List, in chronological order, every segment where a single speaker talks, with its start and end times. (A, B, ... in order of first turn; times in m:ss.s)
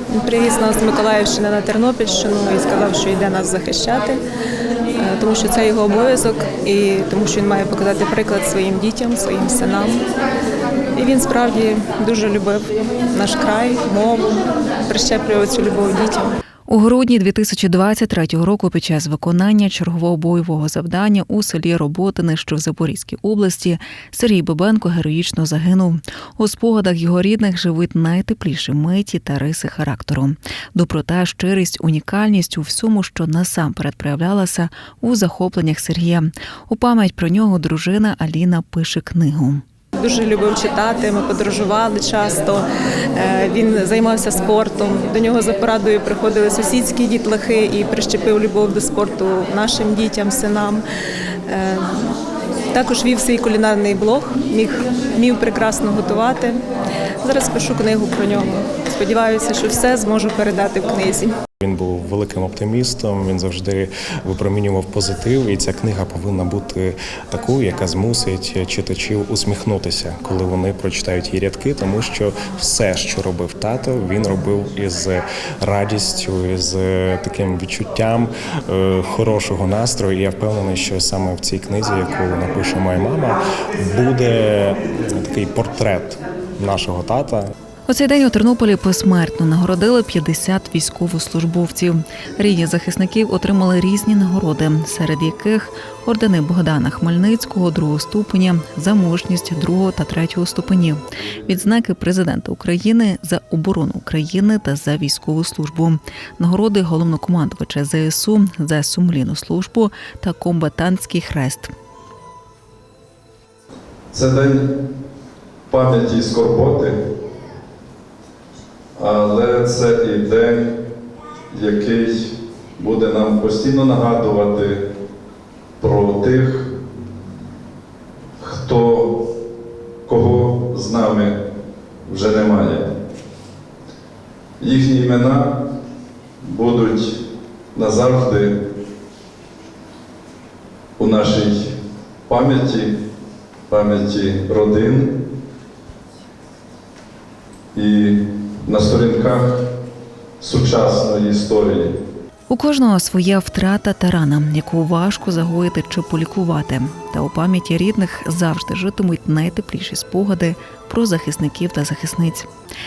0:00.1-0:04.2 A
0:05.0-0:10.0 A
0:11.0-0:14.3 A
0:14.9-0:16.3 A
0:16.7-0:39.6 B
0:40.0-0:50.8 A
0:51.5-0:52.2 A
0:52.7-0:56.6 A
0:57.2-1:01.4 A
1:01.6-1:27.5 C
1:27.9-1:51.7 B
1:54.1-1:54.6 D
1:55.7-1:57.0 D
1:59.0-2:00.8 D
2:01.5-2:04.8 D
2:05.8-2:06.7 D
2:08.4-2:09.3 D
2:10.1-2:11.4 D
2:12.1-2:12.9 D
2:14.6-2:15.6 D
2:16.4-2:17.2 D
2:17.8-2:18.5 D
2:21.0-2:21.8 D
2:22.3-2:22.9 D
2:23.7-2:25.2 D
2:27.7-2:29.5 D
2:30.4-2:31.9 D
2:32.5-2:42.5 B